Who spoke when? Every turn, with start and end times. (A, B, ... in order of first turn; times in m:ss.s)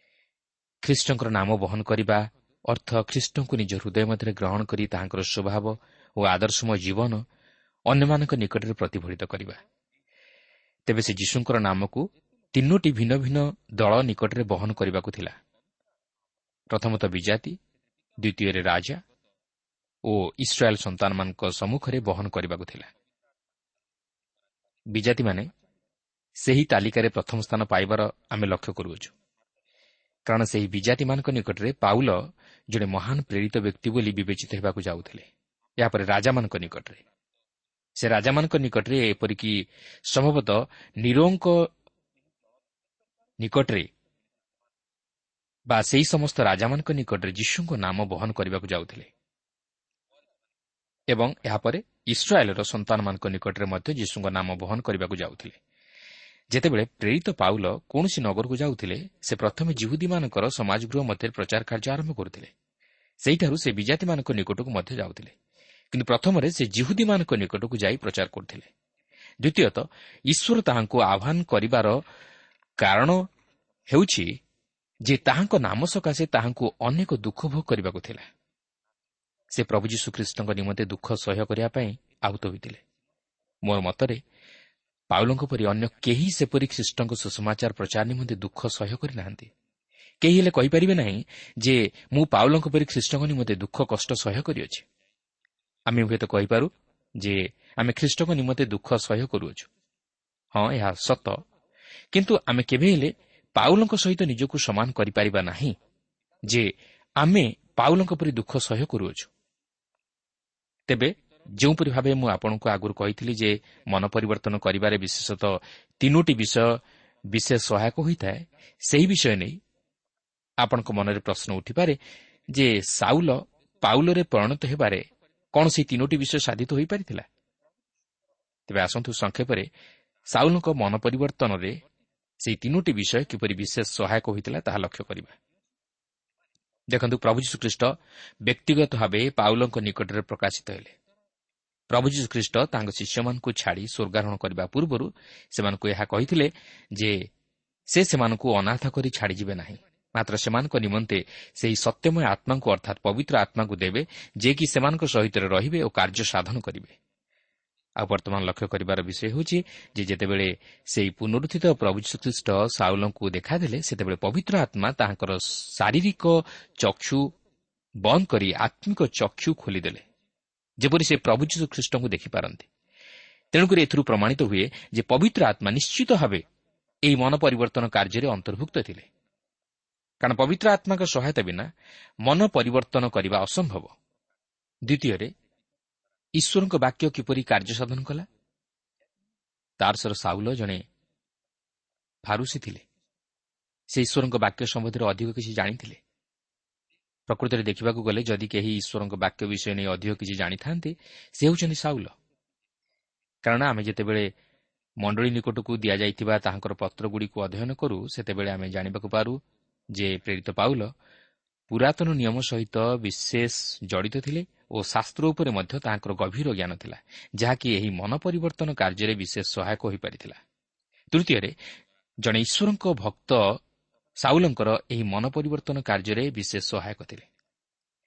0:00.8-0:07.2 A
0:07.9-0:09.6 A
0:10.9-0:15.4 A
0:16.7-0:17.6 A
0:18.2-0:19.0 A
0:20.0-0:22.9 A
0:24.9-0:25.5 A
0:26.4-0:29.1 A
0:30.2-0:35.3 A
0:35.8-0:37.0 A
0:38.0-0:41.7 A
0:43.4-0:43.9 A
0:45.7-0:49.1 A
0:51.1-0:55.6 A
0:56.5-1:02.5 A
1:03.2-1:05.3 A
1:05.9-1:08.7 A
1:09.4-1:12.0 A
1:12.8-1:13.2 A
1:13.9-1:14.4 A
1:15.0-1:18.3 A
1:19.5-1:22.8 A
1:23.6-1:24.2 A
1:25.1-1:29.5 A
1:30.2-1:34.8 A
1:35.9-1:39.7 A
1:40.5-1:41.4 A
1:42.1-1:45.8 A
1:46.5-1:49.3 A
1:50.9-1:59.6 A
2:00.6-2:02.0 A
2:02.5-2:07.2 A
2:08.7-2:09.7 A
2:10.3-2:11.8 A
2:12.4-2:15.4 A
2:16.9-2:17.9 A
2:18.4-2:21.0 A
2:21.9-2:27.2 A
2:27.9-2:37.0 A
2:38.0-2:47.3 A
2:48.0-2:50.0 A
2:50.8-2:52.7 A
2:53.5-2:56.4 A
2:57.0-2:59.1 A
3:00.2-3:01.7 A
3:02.2-3:03.9 A
3:04.9-3:05.3 A
3:06.4-3:08.2 A
3:09.8-3:10.8 A
3:12.2-3:12.8 A
3:13.9-3:16.0 A
3:17.3-3:22.1 A
3:23.4-3:24.3 A
3:25.0-3:29.4 A
3:29.9-3:30.9 A
3:31.7-3:40.4 A
3:41.1-3:41.6 A
3:42.2-3:43.6 A
3:44.2-3:47.3 A